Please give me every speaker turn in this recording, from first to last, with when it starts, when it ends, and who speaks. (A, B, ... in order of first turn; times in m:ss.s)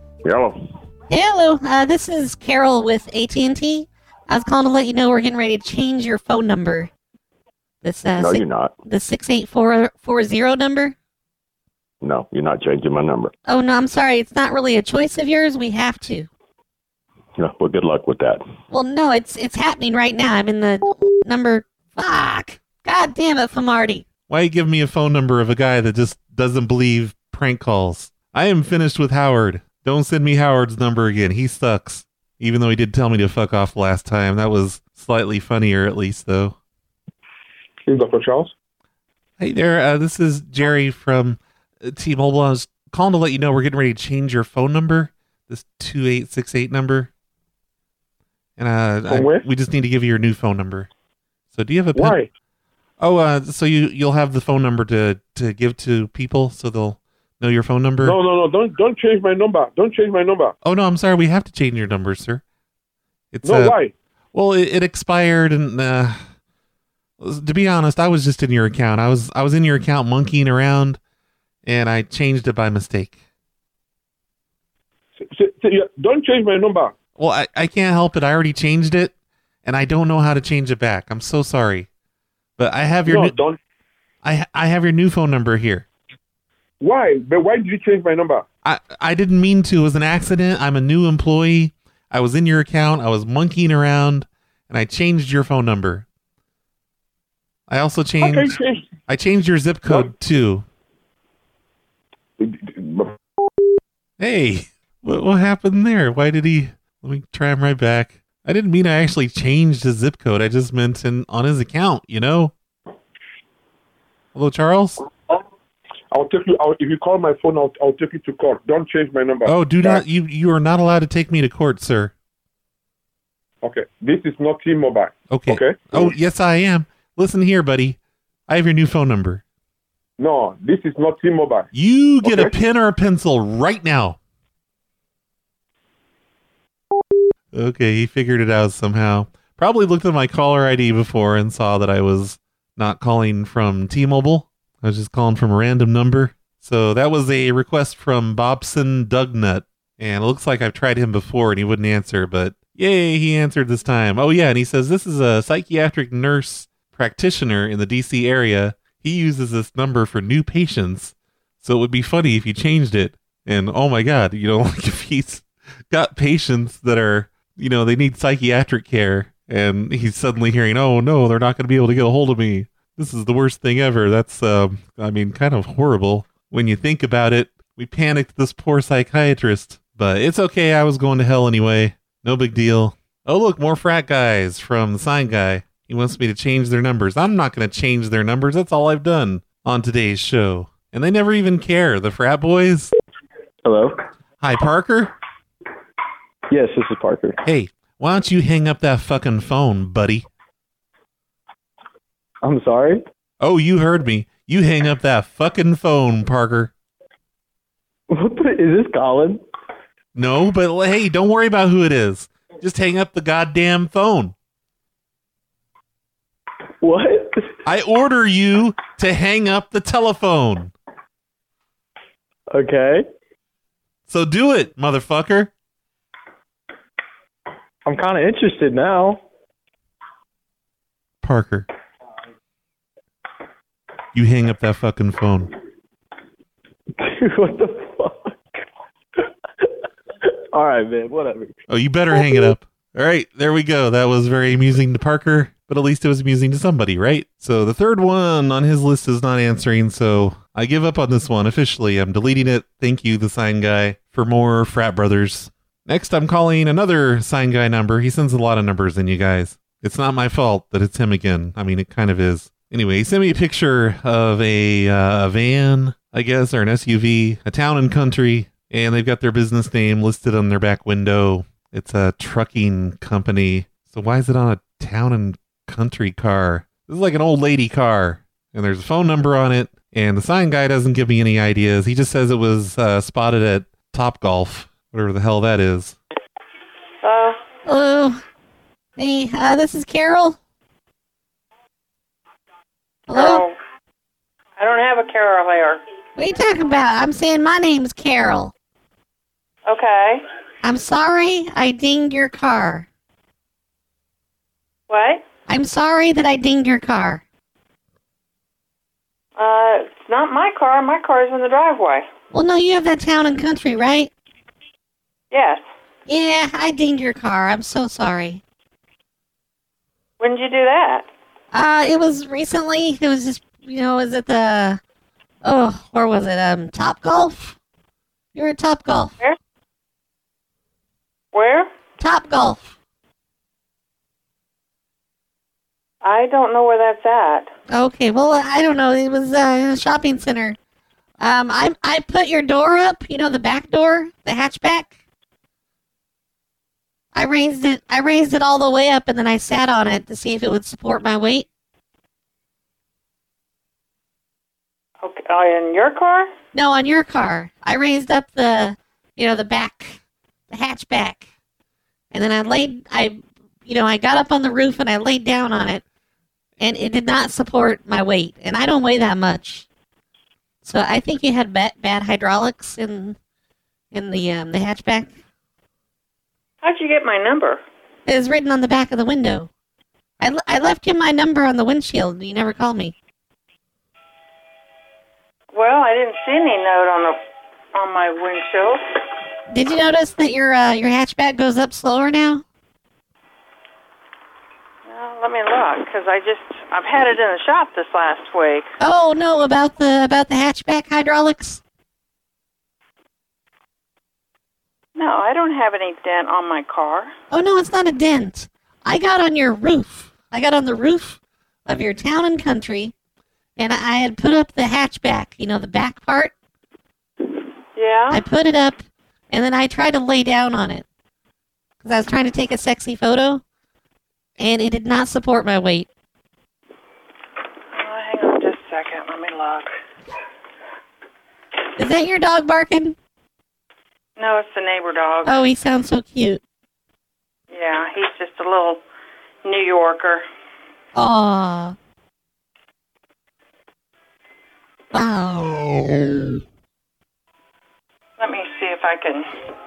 0:00.2-0:00.6 A
0:01.1-0:06.9 B
0:07.8-0:11.0 B
0:08.2-0:08.8 A
0:12.0-0:13.3 A
0:13.5-0:16.3 B
0:17.4-0:18.4 A
0:18.7-0:24.1 B
0:24.3-0:36.6 C
0:37.9-0:38.5 D
0:39.4-0:47.1 C
0:48.6-0:50.9 C
0:49.1-0:49.4 D
0:51.5-0:52.2 C
0:52.0-0:52.3 D
0:53.0-0:58.2 C
0:58.0-1:00.5 D
1:00.6-1:02.4 C
1:03.3-1:03.8 C
1:03.4-1:03.9 D
1:04.3-1:06.2 C
1:07.2-1:11.0 C
1:11.6-1:13.2 C
1:15.3-1:16.9 D
1:17.2-1:19.1 C
1:19.6-1:21.9 C
1:22.6-1:23.4 C
1:23.1-1:23.6 D
1:24.2-1:25.9 C
1:26.8-1:28.4 D
1:28.6-1:36.1 C
1:37.7-1:40.7 C
1:38.2-1:38.9 D
1:42.4-1:43.2 D
1:44.2-1:52.5 C
1:54.4-1:55.0 C
1:56.1-2:00.0 D
1:59.5-2:02.1 C
2:03.6-2:06.1 D
2:05.3-2:09.4 C
2:10.2-2:11.7 D
2:11.7-2:14.2 C
2:12.2-2:12.5 D
2:17.5-3:12.9 C
3:13.6-3:14.0 E
3:14.4-3:15.1 C
3:16.5-3:17.4 E
3:17.4-3:20.3 C
3:22.4-3:23.0 E
3:23.4-3:26.7 C
3:28.1-3:29.4 E
3:30.2-3:34.4 C
3:36.8-3:37.5 E
3:37.6-3:40.7 C
3:42.5-3:43.0 E
3:44.1-3:45.5 C
3:47.9-3:49.2 E
3:51.2-3:51.7 C
3:54.1-3:55.5 C
3:57.0-3:58.4 E
4:00.3-4:01.6 E
4:01.7-4:46.0 C
4:02.1-4:02.5 E
4:47.0-4:47.4 F
4:47.7-4:48.2 B
4:49.0-4:50.4 B
4:53.1-4:53.4 B
4:53.1-4:53.6 F
4:54.6-4:55.8 F
4:56.2-4:58.5 B
4:59.7-5:00.2 F
5:00.6-5:02.9 B
5:04.9-5:05.2 F
5:05.5-5:07.2 B
5:09.4-5:12.1 F
5:12.3-5:14.1 B
5:15.3-5:15.6 F
5:16.1-5:18.4 B
5:20.2-5:21.1 F
5:21.5-5:24.8 B
5:25.4-5:27.6 B
5:28.4-5:29.1 B
5:31.3-5:31.7 F
5:32.0-5:32.7 B
5:36.0-5:37.5 F
5:37.7-5:40.6 B
5:41.2-5:45.0 B
5:47.1-5:51.5 B
5:55.0-5:56.3 F
5:56.5-6:00.0 B
6:00.5-6:01.3 B
6:02.1-6:05.8 B
6:06.6-6:09.7 B
6:10.6-6:13.2 B
6:13.9-6:15.2 B
6:16.6-6:17.6 F
6:18.1-6:19.5 B
6:20.2-6:22.9 B
6:25.5-6:27.2 F
6:27.7-6:28.8 F
6:29.5-6:32.4 B
6:34.9-6:38.7 F
6:38.8-6:41.6 B
6:45.0-6:47.1 F
6:47.3-6:52.9 B
6:53.6-6:56.3 B
6:57.8-6:58.2 F
6:58.1-7:00.9 B
7:01.8-7:03.4 B
7:04.4-7:05.9 B
7:07.7-7:09.7 F
7:11.8-7:13.0 B
7:14.2-7:15.4 F
7:15.3-7:16.4 B
7:17.5-7:18.8 F
7:19.4-7:20.2 F
7:21.0-7:21.8 B
7:24.9-7:26.4 B
7:28.2-7:29.3 F